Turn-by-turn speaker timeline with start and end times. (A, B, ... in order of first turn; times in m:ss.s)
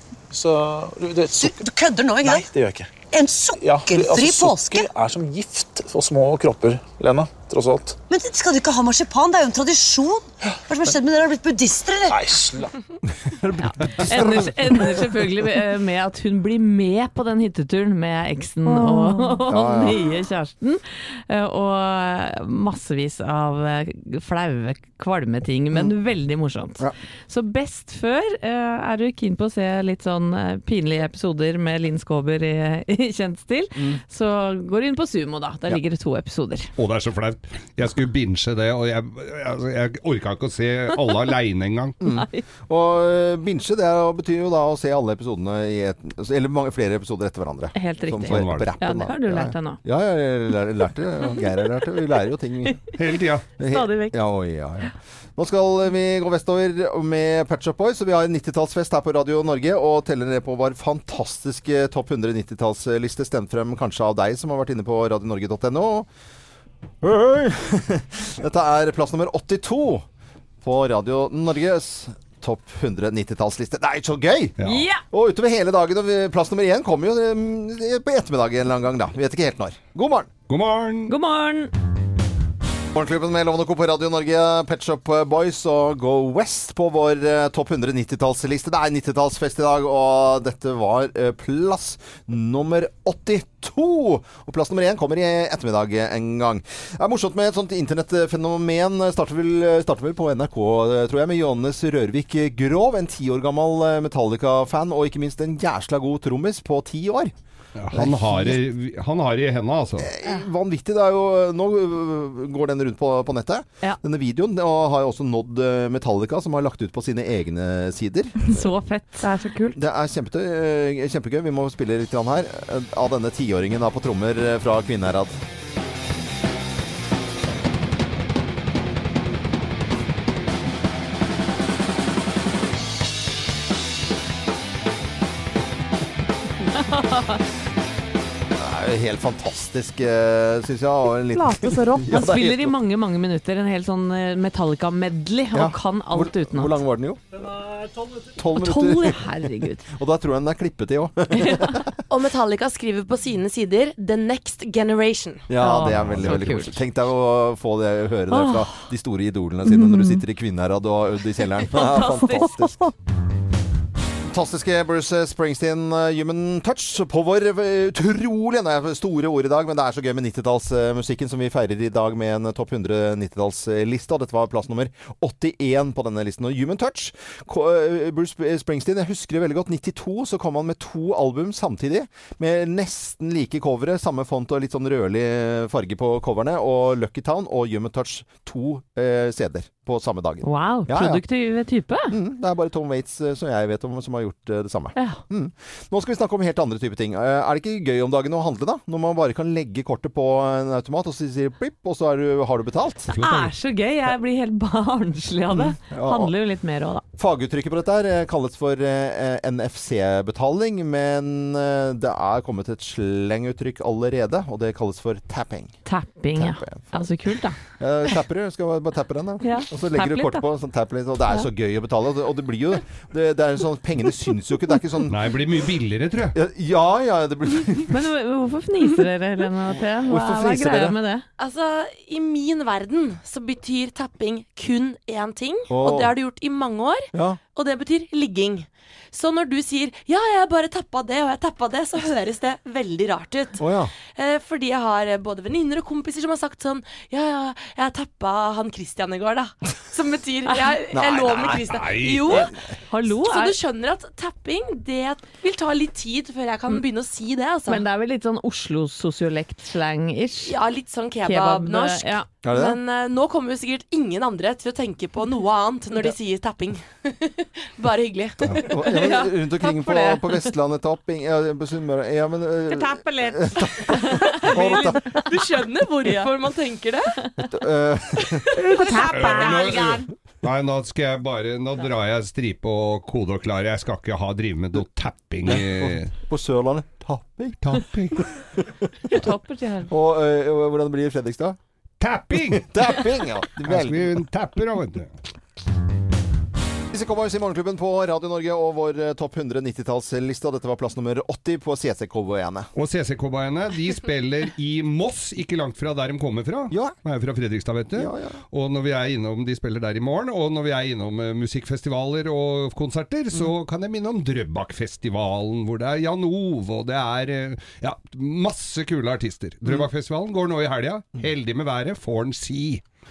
0:00.3-0:01.7 A
0:01.4-0:02.5 B
0:02.2-0:03.0 A
0:03.1-0:04.9 B
0:03.6-0:08.0 A
0:08.1-0:12.2 B
0:12.1-0:12.7 A
0:13.2-0:15.0 C
0:13.6-0:36.7 D
0:18.6-0:19.5 E
0:19.5-0:20.0 C
0:33.8-0:34.0 C
0:36.8-0:42.0 F
0:42.0-0:52.9 C
0:42.0-0:42.4 D
0:47.8-0:49.8 D
0:48.3-0:48.7 F
0:53.0-0:53.5 F
0:53.6-1:06.1 C
0:53.6-0:54.2 D
1:07.0-1:10.0 C
1:10.6-1:20.3 C
1:14.6-1:14.9 F
1:14.6-1:15.0 D
1:20.5-1:21.1 F
1:21.1-1:21.7 D
1:22.9-1:47.3 C
1:47.8-1:50.1 F
1:47.9-1:48.6 C
1:50.0-1:58.6 C
1:58.5-1:59.3 D
1:59.2-1:59.8 E
1:59.8-2:05.4 C
2:16.7-2:17.4 D
2:18.6-2:22.8 C
2:21.4-2:22.2 E
2:22.1-2:26.8 D
2:25.5-2:27.2 C
2:28.4-2:29.3 C
2:28.6-2:29.9 D
2:29.9-2:32.0 C
2:31.4-2:31.8 D
2:32.1-2:35.5 G
2:35.5-2:42.9 C
2:35.6-2:36.8 D
2:38.3-2:38.6 D
2:39.8-2:40.1 E
2:41.6-2:42.7 D
2:44.3-3:11.2 C
3:10.4-3:12.1 D
3:12.1-3:23.1 C
3:15.0-3:15.2 D
3:23.1-3:23.5 F
3:23.2-3:27.0 D
3:25.5-3:26.3 C
3:27.2-3:35.8 C
3:35.8-3:37.6 D
3:36.4-3:37.1 C
3:37.8-3:45.2 C
3:39.4-3:40.4 D
3:45.1-3:46.4 F
3:46.3-3:48.0 C
3:47.9-3:51.2 D
3:50.1-3:51.0 C
3:51.4-4:12.6 G
3:55.7-3:56.1 C
3:57.1-3:57.4 C
4:03.6-4:03.9 C
4:10.5-4:10.8 D
4:10.9-4:11.8 C
4:11.2-4:12.4 F
4:12.3-4:13.6 D
4:13.1-4:17.8 G
4:17.7-4:20.6 D
4:20.4-4:29.2 G
4:21.2-4:22.3 D
4:22.4-4:22.8 C
4:28.6-4:35.2 C
4:28.8-4:30.3 D
4:32.7-4:35.2 D
4:34.6-4:37.1 G
4:37.5-4:38.5 C
4:38.3-4:40.0 G
4:38.7-4:40.0 D
4:39.1-4:39.9 F
4:40.4-4:46.1 F
4:45.5-4:47.8 C
4:47.6-4:48.3 F
4:48.4-4:49.3 C
4:49.1-4:49.9 D
4:49.9-4:51.6 C
4:52.0-4:52.7 F
4:52.3-4:54.2 C
4:53.6-4:55.1 F
4:56.9-5:02.7 C
5:02.8-5:22.8 F
5:06.7-5:07.0 C
5:08.0-5:08.4 C